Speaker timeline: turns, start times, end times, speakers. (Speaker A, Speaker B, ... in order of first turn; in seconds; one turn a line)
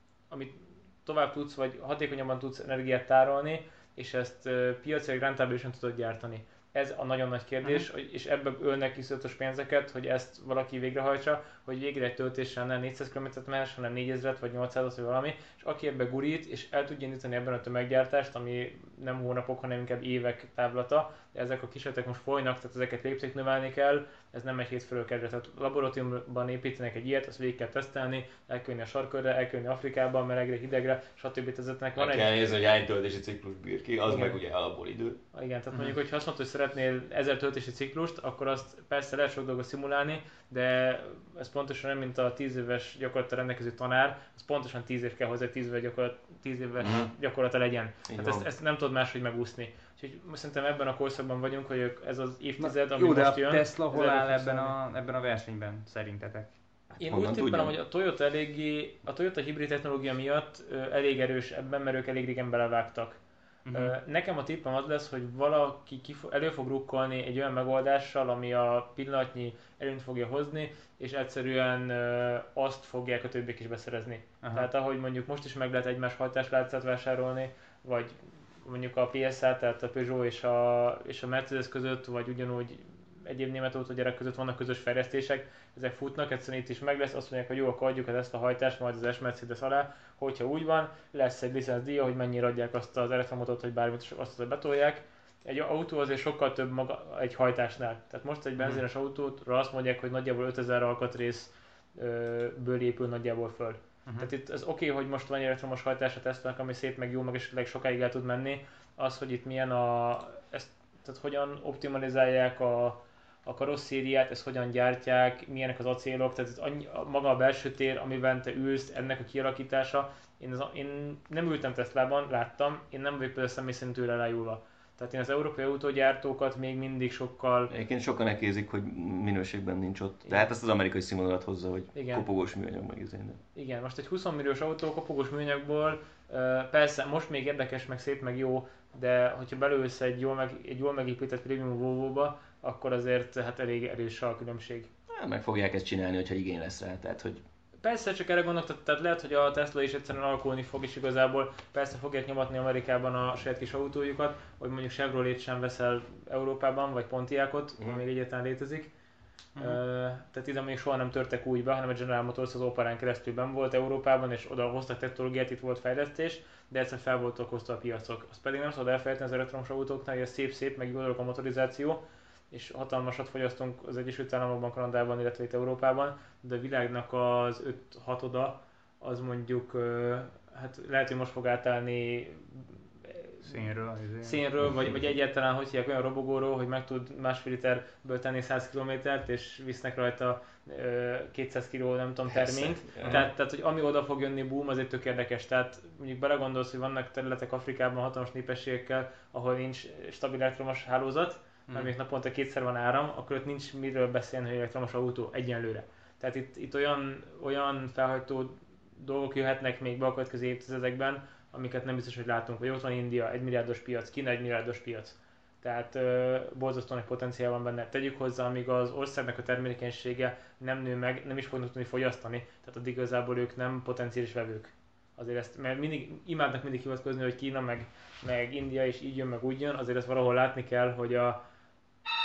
Speaker A: 0.3-32.3
Speaker B: 32.0-35.2
Speaker A: 34.1-34.4
Speaker A: 35.3-54.8
Speaker B: 46.8-47.1
Speaker B: 48.1-48.5
Speaker C: 52.6-56.5
Speaker A: 57.0-63.2
Speaker B: 57.0-57.8
Speaker C: 63.6-64.0
Speaker A: 63.7-127.7
Speaker C: 74.4-74.7
Speaker B: 127.7-133.4
Speaker A: 131.9-132.2
Speaker A: 133.5-144.9
Speaker B: 145.1-147.4
Speaker A: 147.8-158.9
Speaker A: 159.6-183.7
Speaker C: 183.4-184.4
Speaker A: 184.2-231.3
Speaker B: 192.3-193.2
Speaker C: 193.0-193.3